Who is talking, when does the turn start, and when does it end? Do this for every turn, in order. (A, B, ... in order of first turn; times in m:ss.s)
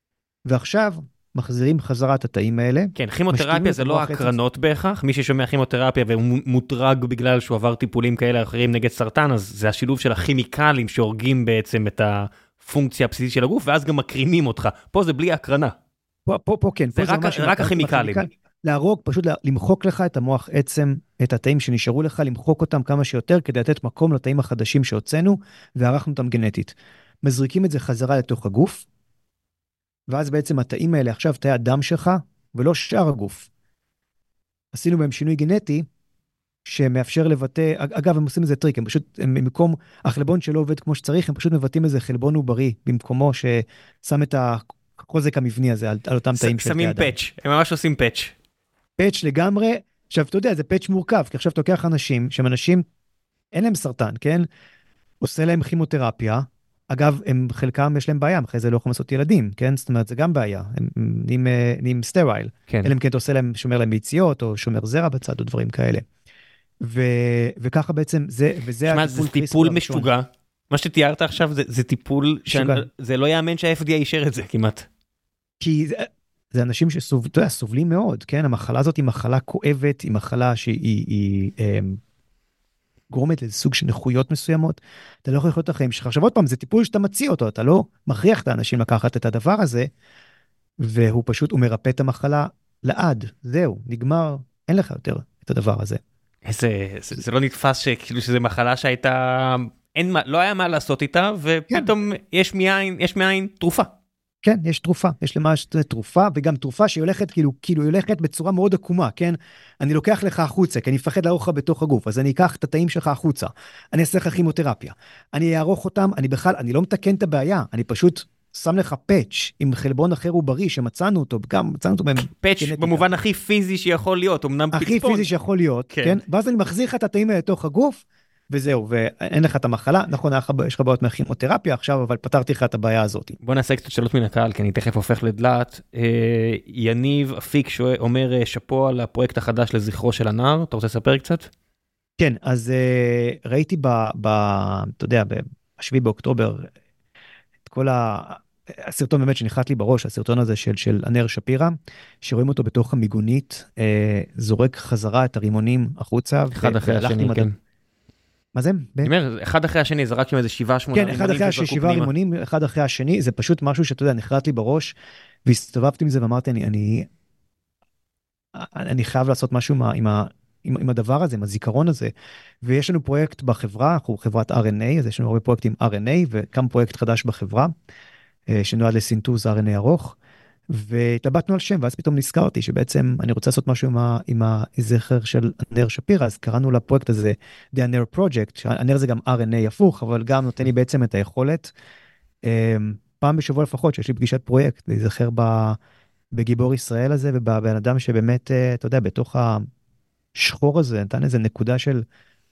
0:00.5-0:04.4 A
0:03.0-0:15.7 B
0:16.3-0:28.8 A
0:17.0-0:18.2 B
0:30.1-0:33.5 A
0:34.7-0:35.8 A
0:36.6-0:47.1 A
0:46.4-0:48.3 B
0:49.0-0:52.8 A
0:53.5-0:54.4 A
0:55.2-1:06.0 A
1:06.8-1:10.1 A
1:08.8-1:14.9 B
1:12.5-1:12.8 A
1:15.6-1:22.0 A
1:23.1-1:29.9 A
1:30.8-1:36.0 A
1:36.5-1:43.9 B
1:44.4-2:03.1 A
2:02.3-2:05.3 B
2:04.7-2:13.4 A
2:05.9-2:06.2 B
2:13.4-2:21.5 B
2:22.2-2:26.7 A
2:27.7-2:37.5 A
2:36.5-2:37.6 B
2:38.5-2:39.1 A
2:39.0-2:42.1 B
2:40.9-2:44.9 A
2:45.4-2:47.1 A
2:48.5-2:52.1 A
2:52.6-2:57.7 A
2:58.5-3:00.2 A
3:00.7-3:11.7 A
3:12.4-3:15.8 A
3:16.3-3:19.6 A
3:20.4-3:22.0 A